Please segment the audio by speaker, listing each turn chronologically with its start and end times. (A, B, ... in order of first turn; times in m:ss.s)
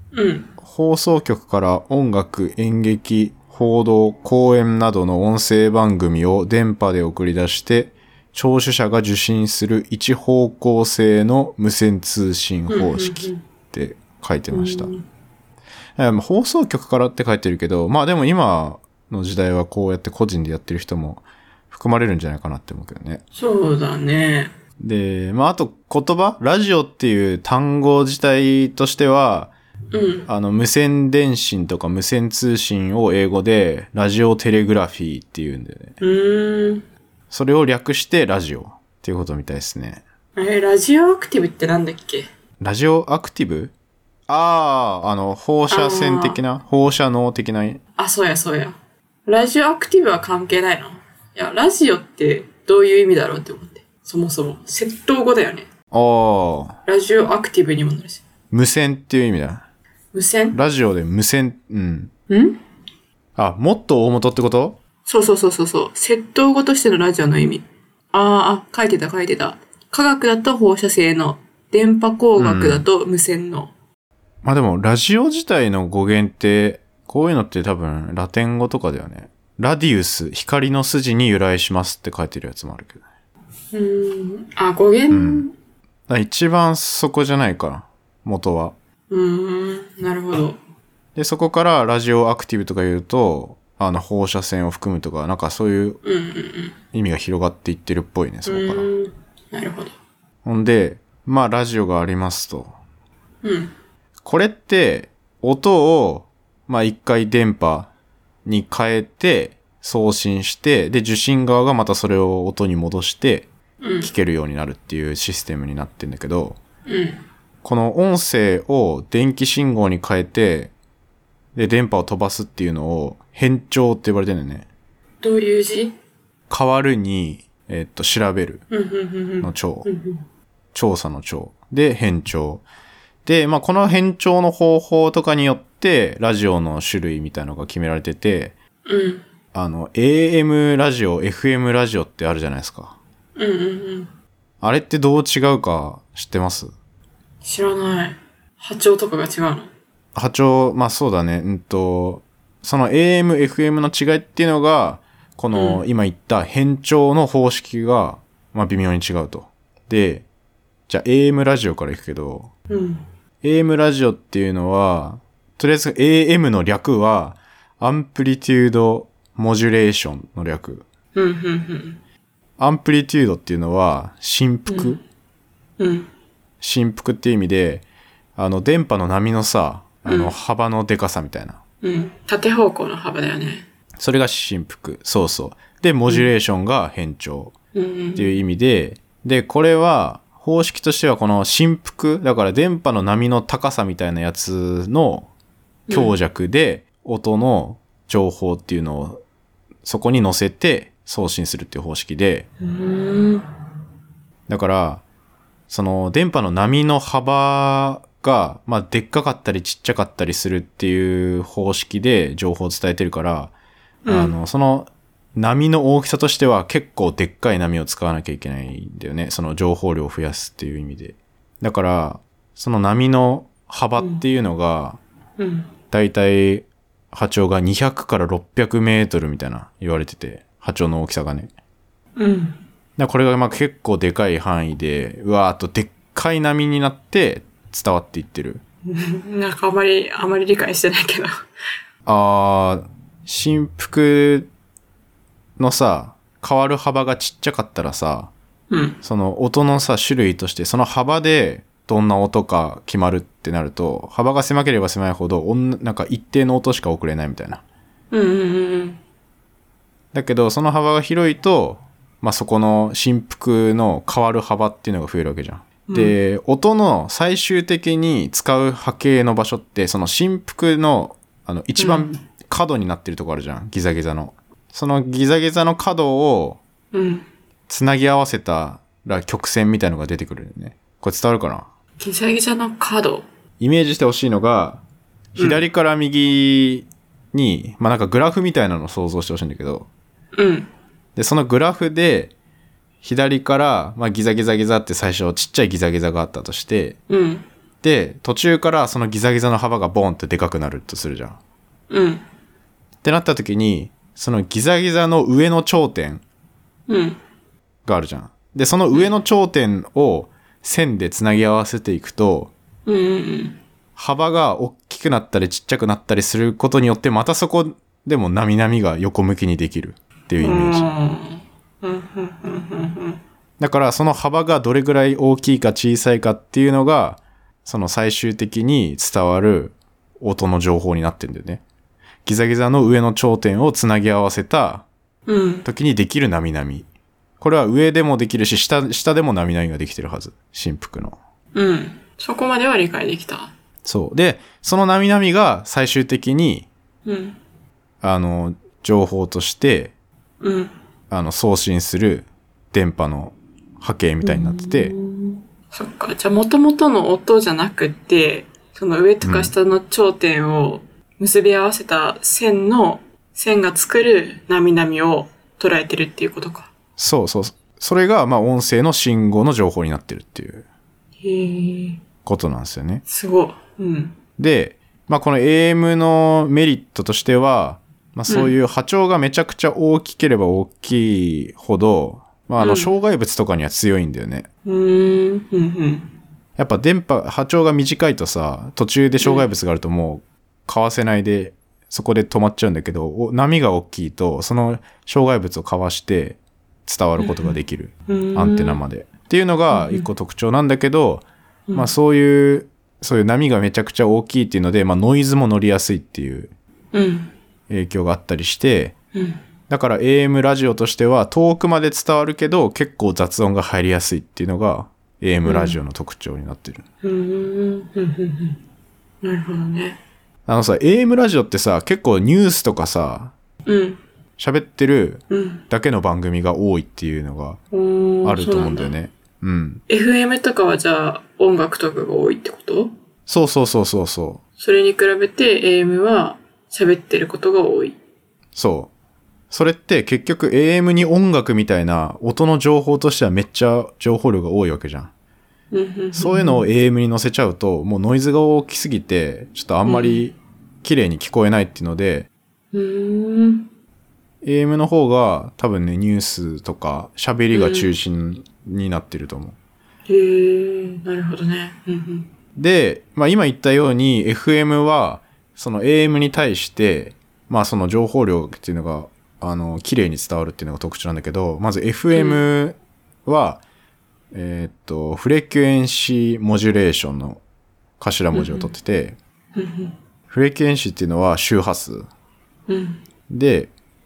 0:00.1-0:00.5 A
0:00.6-0:14.9 B
0:12.7-0:13.4 A
0:14.5-0:15.0 A
0:16.0-0:23.2 B
0:23.3-0:24.5 A
0:24.8-0:29.5 B
0:29.9-0:30.3 A
0:30.2-0:35.9 B
0:36.0-0:36.8 A
0:37.3-0:40.0 B
0:40.4-0:42.3 A
0:42.6-0:43.7 B
0:44.3-0:47.8 B
0:45.7-0:46.4 A
0:48.0-0:55.7 A
0:55.9-0:56.8 B
0:56.8-0:58.2 A
0:58.5-0:59.6 B
1:00.1-1:00.6 A
1:00.5-1:02.1 B
1:02.3-1:02.6 A
1:03.4-1:04.8 B
1:05.0-1:13.7 A
1:12.4-1:12.9 B
1:14.4-1:23.0 B
1:23.7-1:25.5 A
1:25.1-1:25.4 B
1:26.1-1:28.7 B
1:29.1-1:30.6 A
1:31.1-1:36.0 B
1:36.0-1:36.8 A
1:36.9-1:38.8 B
1:38.4-1:39.9 A
1:40.4-1:42.7 B
1:43.4-1:43.7 A
1:44.2-1:47.9 B
1:48.4-1:53.5 B
1:53.8-1:54.1 A
1:54.0-1:56.6 B
1:56.9-1:57.2 A
1:57.6-2:00.7 B
2:01.5-2:04.6 B
2:05.2-2:05.9 A
2:06.5-2:08.6 B
2:08.7-2:10.2 A
2:09.4-2:09.9 B
2:10.7-2:12.6 B
2:13.2-2:18.5 B
2:18.8-2:19.2 A
2:19.5-2:23.0 B
2:23.4-2:24.1 A
2:24.6-2:26.7 B
2:27.4-2:29.7 A
2:30.1-2:40.2 B
2:35.5-2:35.8 A
2:40.9-2:42.5 B
2:42.7-2:43.0 A
2:43.4-2:50.8 B
2:51.1-2:52.0 A
2:52.6-2:55.0 B
2:54.7-2:55.0 A
2:55.8-2:56.1 A
2:56.6-2:57.8 B
2:58.4-3:01.6 B
3:00.0-3:00.3 A
3:01.8-3:03.6 A
3:04.0-3:07.5 B
3:07.7-3:08.4 A
3:08.2-3:15.3 B
3:15.9-3:16.1 A
3:15.9-3:19.2 B
3:19.8-3:22.4 B
3:22.6-3:23.4 A
3:24.5-3:25.0 B
3:25.7-3:33.5 B
3:34.0-3:34.3 A
3:34.1-3:45.0 B
3:44.0-3:44.2 A
3:45.4-3:45.7 A
3:45.9-3:51.5 B
3:52.2-3:52.6 A
3:53.0-3:58.6 B
3:58.9-4:01.4 A
4:02.0-4:04.5 B
4:05.6-4:08.3 B
4:08.7-4:09.0 A
4:09.0-4:17.6 B
4:18.1-4:19.0 A
4:20.1-4:36.6 B
4:25.9-4:26.2 A
4:31.8-4:32.2 A
4:36.9-4:37.3 A
4:37.7-4:41.7 B
4:42.0-4:43.2 A
4:43.6-4:44.8 B
4:45.3-4:49.9 B
4:45.4-4:45.6 A
4:50.3-4:50.7 A
4:51.2-4:52.3 B
4:53.0-4:57.0 B
4:57.1-4:57.4 A
4:57.8-5:01.4 B
5:01.9-5:02.2 A
5:03.0-5:06.2 B
5:06.9-5:07.2 A
5:07.8-5:12.5 B
5:12.8-5:13.6 A
5:14.0-5:20.9 B
5:20.4-5:23.2 A
5:23.6-5:31.6 B
5:32.2-5:34.8 B
5:35.3-5:35.7 A
5:35.6-5:36.8 B
5:37.4-5:41.2 B
5:41.5-5:43.5 A
5:43.8-5:46.7 B
5:47.0-5:47.4 A
5:48.0-5:49.9 B
5:50.4-5:50.7 A
5:51.1-5:54.9 B
5:54.2-6:06.7 A
5:59.2-5:59.5 B
6:07.0-6:10.6 B
6:11.2-6:12.0 A
6:12.2-6:13.0 B
6:13.1-6:14.2 A
6:14.4-6:24.5 B
6:18.3-6:18.5 A
6:22.6-6:22.9 A
6:24.6-6:26.1 A
6:26.6-6:46.5 B
6:29.2-6:29.5 A
6:37.2-6:38.8 A
6:39.7-6:40.1 A
6:46.9-6:47.3 A
6:47.7-6:48.9 B
6:49.1-6:49.4 A
6:49.7-6:56.8 B
6:55.4-6:55.8 A
6:57.0-6:58.6 A
6:59.2-7:00.0 A
7:00.4-7:03.3 B
7:03.6-7:04.0 A
7:04.4-7:07.6 B
7:05.3-7:05.6 A
7:07.7-7:08.9 A
7:08.2-7:09.8 B
7:09.9-7:12.9 A
7:13.3-7:14.4 B
7:14.6-7:18.0 A
7:18.5-7:18.9 B
7:19.5-7:25.1 B
7:25.7-7:26.7 A
7:26.1-7:32.3 B
7:29.8-7:30.2 A
7:32.7-7:33.7 A
7:34.4-7:39.6 B
7:37.5-7:38.0 A
7:40.1-7:42.3 A
7:42.6-7:53.6 B
7:52.1-7:52.4 A
7:54.3-7:57.4 B
7:58.0-7:59.2 B
7:58.3-7:58.7 A
7:59.5-7:59.9 A
8:00.3-8:02.1 B
8:02.7-8:03.0 A
8:03.3-8:03.7 B